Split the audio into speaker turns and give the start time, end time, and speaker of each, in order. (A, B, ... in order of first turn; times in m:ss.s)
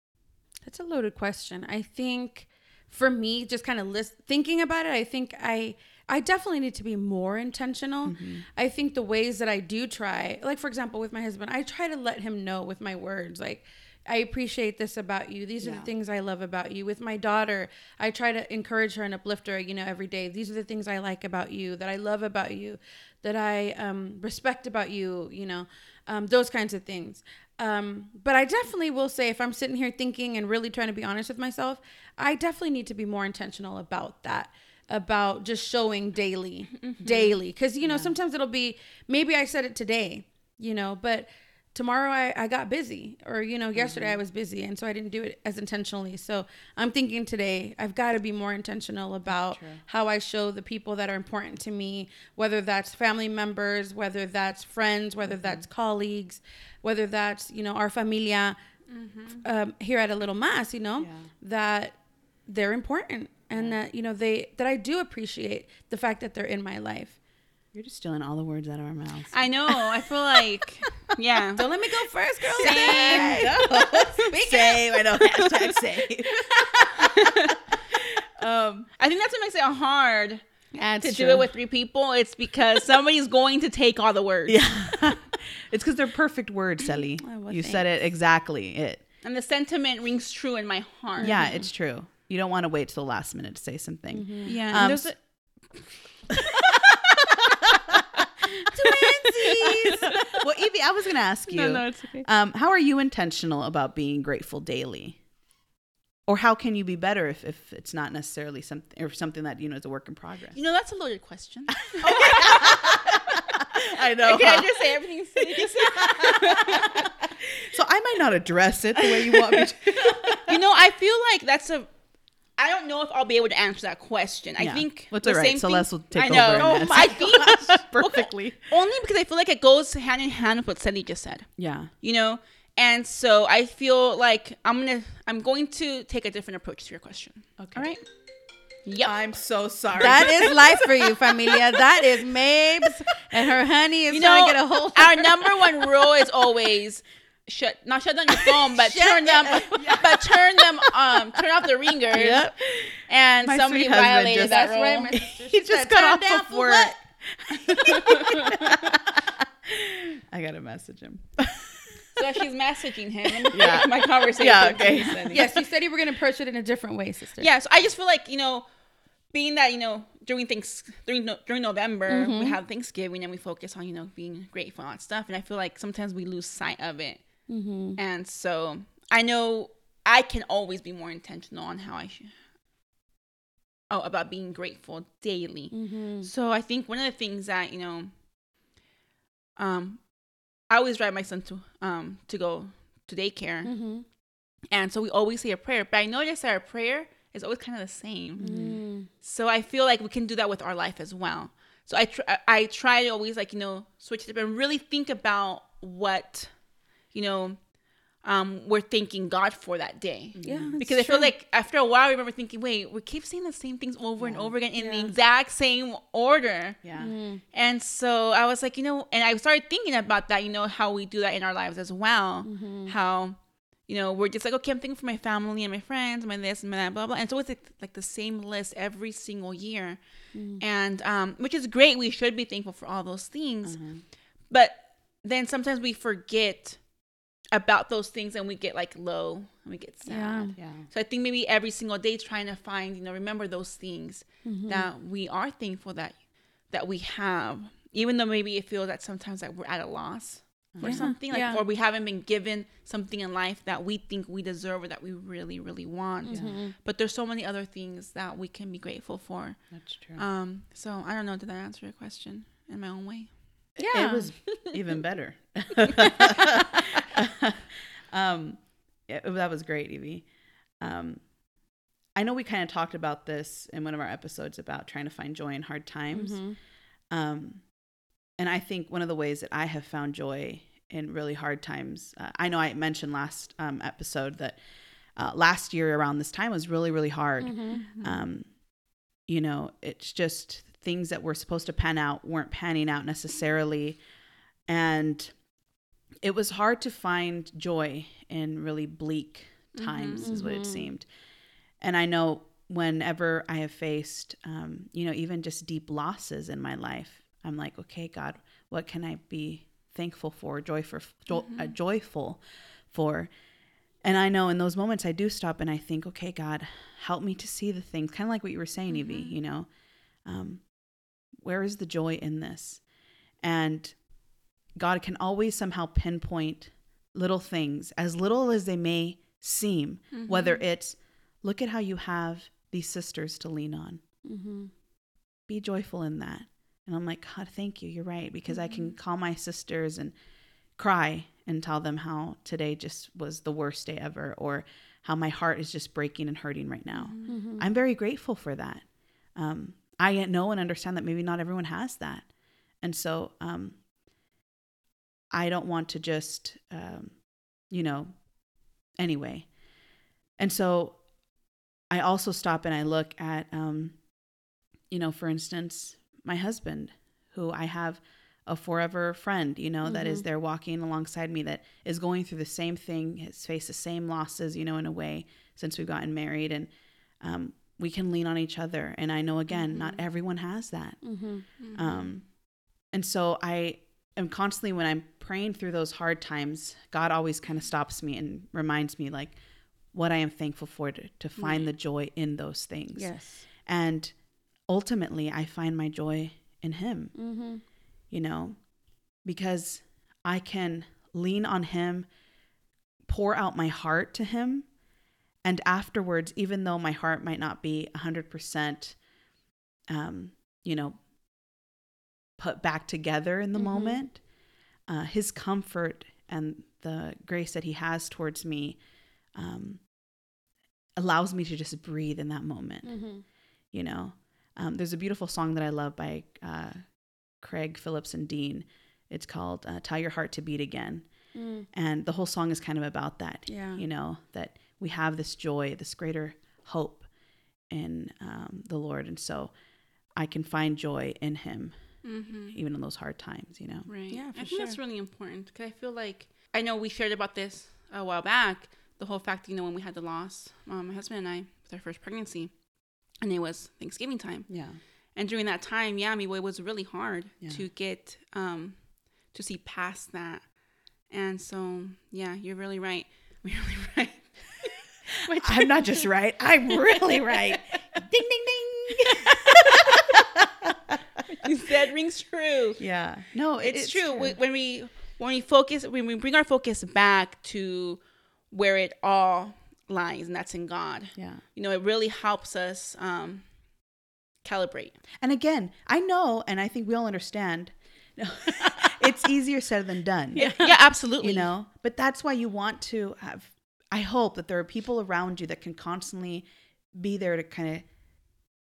0:00.6-0:58.6 A
0:08.0-0:08.4 B
0:15.6-0:15.9 B
0:36.8-0:37.1 C
0:37.8-0:38.1 B
0:43.7-0:44.2 B
0:49.5-0:49.8 B
0:55.3-0:55.6 B
0:58.9-0:59.4 C
0:59.4-1:07.2 A
1:01.0-1:01.3 B
1:07.7-1:09.3 B
1:09.3-1:11.6 C
1:11.5-1:15.7 A
1:12.5-1:13.4 C
1:12.6-1:18.9 B
1:16.3-1:17.0 A
1:17.0-1:17.6 C
1:19.0-1:20.4 C
1:20.7-1:21.5 A
1:21.0-1:25.0 C
1:24.5-1:29.0 B
1:27.0-1:27.8 A
1:29.2-1:31.4 C
1:31.2-1:31.6 A
1:31.2-1:35.1 B
1:34.1-1:34.8 A
1:34.4-1:35.2 C
1:36.3-1:36.7 B
1:36.6-1:37.4 C
1:37.7-1:38.0 B
1:38.5-1:40.1 A
1:38.9-1:40.5 C
1:39.7-1:45.2 B
1:41.5-1:42.2 C
1:46.3-1:50.6 B
1:50.5-1:57.1 C
1:51.8-2:00.6 B
1:59.1-2:01.9 C
2:02.6-2:11.5 C
2:04.6-2:08.7 B
2:11.6-2:11.9 B
2:12.0-2:18.0 C
2:17.6-2:17.9 B
2:18.8-2:19.1 C
2:19.0-2:20.6 B
2:19.9-2:25.6 A
2:24.1-2:32.5 C
2:28.6-2:30.0 A
2:29.7-2:31.4 B
2:32.1-2:42.2 B
2:32.1-2:32.5 A
2:33.1-2:35.1 C
2:34.4-2:37.0 A
2:37.8-2:38.9 C
2:42.2-2:45.5 C
2:43.4-2:45.5 B
2:45.3-2:47.5 A
2:47.4-2:48.7 C
2:49.3-2:57.2 C
2:52.1-2:52.6 A
2:57.5-2:58.0 A
2:58.0-3:02.3 C
3:03.9-3:08.1 C
3:05.7-3:06.3 A
3:09.6-3:10.1 C
3:10.7-3:13.7 C
3:13.6-3:14.0 A
3:14.7-3:18.4 C
3:18.4-3:18.8 B
3:18.4-3:19.1 A
3:19.2-3:26.5 C
3:27.1-3:27.6 C
3:28.2-3:36.8 C
3:30.3-3:30.8 B
3:30.4-3:31.3 A
3:34.2-3:34.5 B
3:34.8-3:35.1 A
3:36.8-3:37.1 B
3:37.0-3:37.4 A
3:37.5-3:50.0 C
3:42.4-3:42.9 A
3:50.3-3:50.6 A
3:50.6-3:53.9 C
3:53.6-3:54.0 B
3:54.5-3:56.8 C
3:57.5-4:19.6 C
4:00.0-4:00.6 A
4:00.6-4:00.8 B
4:04.4-4:04.9 A
4:10.7-4:11.1 B
4:10.8-4:11.6 A
4:16.2-4:16.7 A
4:16.3-4:16.6 B
4:19.7-4:20.2 B
4:20.2-4:23.3 C
4:23.8-4:24.3 A
4:23.8-4:30.3 B
4:30.8-4:31.2 B
4:32.1-4:36.5 B
4:36.1-4:36.6 A
4:37.1-4:37.7 B
4:38.4-4:44.6 B
4:45.2-4:48.5 B
4:47.4-4:47.8 A
4:47.7-4:48.2 C
4:49.3-4:54.0 B
4:54.7-4:55.3 B
4:56.2-5:01.1 B
4:59.7-5:00.4 C
5:00.2-5:00.9 A
5:01.8-5:12.4 B
5:11.3-5:11.7 C
5:12.9-5:13.3 B
5:14.0-5:19.7 B
5:18.9-5:19.3 C
5:20.2-5:20.8 B
5:21.3-5:22.8 B
5:23.4-5:24.0 B
5:24.7-5:34.0 B
5:30.1-5:30.6 C
5:34.2-5:34.7 A
5:35.5-5:40.1 B
5:38.5-5:38.9 C
5:40.8-5:48.8 B
5:46.9-5:47.4 C
5:47.3-5:47.6 A
5:49.3-5:52.3 B
5:52.8-5:53.8 B
5:55.3-5:58.2 B
5:58.9-5:59.5 B
6:00.4-6:01.0 B
6:01.9-6:04.0 B
6:04.9-6:16.7 B
6:09.8-6:10.2 A
6:17.2-6:21.2 B
6:19.7-6:20.0 C
6:21.0-6:21.4 A
6:21.6-6:22.1 C
6:21.7-6:22.3 B
6:22.9-6:29.4 B
6:29.9-6:34.1 B
6:31.4-6:31.7 C
6:33.0-6:33.4 A
6:34.7-6:37.2 B
6:37.2-6:37.6 A
6:38.1-6:38.6 B
6:39.2-6:42.1 B
6:43.0-6:44.7 B
6:45.4-6:49.0 B
6:49.9-6:51.0 B
6:52.4-6:54.2 B
6:53.6-6:54.0 A
6:54.9-6:58.8 B
6:59.3-6:59.9 B
7:01.0-7:03.0 B
7:02.8-7:03.2 A
7:03.7-7:11.1 B
7:11.3-7:11.6 A
7:11.7-7:17.0 B
7:13.5-7:13.8 A
7:17.7-7:19.5 B
7:20.2-7:21.7 B
7:22.0-7:22.6 C
7:22.5-7:23.9 B
7:23.9-7:32.5 C
7:24.1-7:24.8 A
7:33.2-7:34.5 C
7:34.5-7:34.8 B
7:35.1-7:40.5 C
7:41.1-7:46.1 C
7:45.4-7:51.2 B
7:46.7-7:47.6 C
7:49.0-7:49.4 C
7:51.3-7:52.8 C
7:52.8-7:54.4 B
7:53.6-7:58.0 C
7:58.5-8:03.4 C
8:01.2-8:01.4 B
8:04.4-8:05.0 C
8:05.2-8:17.8 B
8:10.4-8:10.6 A
8:10.4-8:11.5 C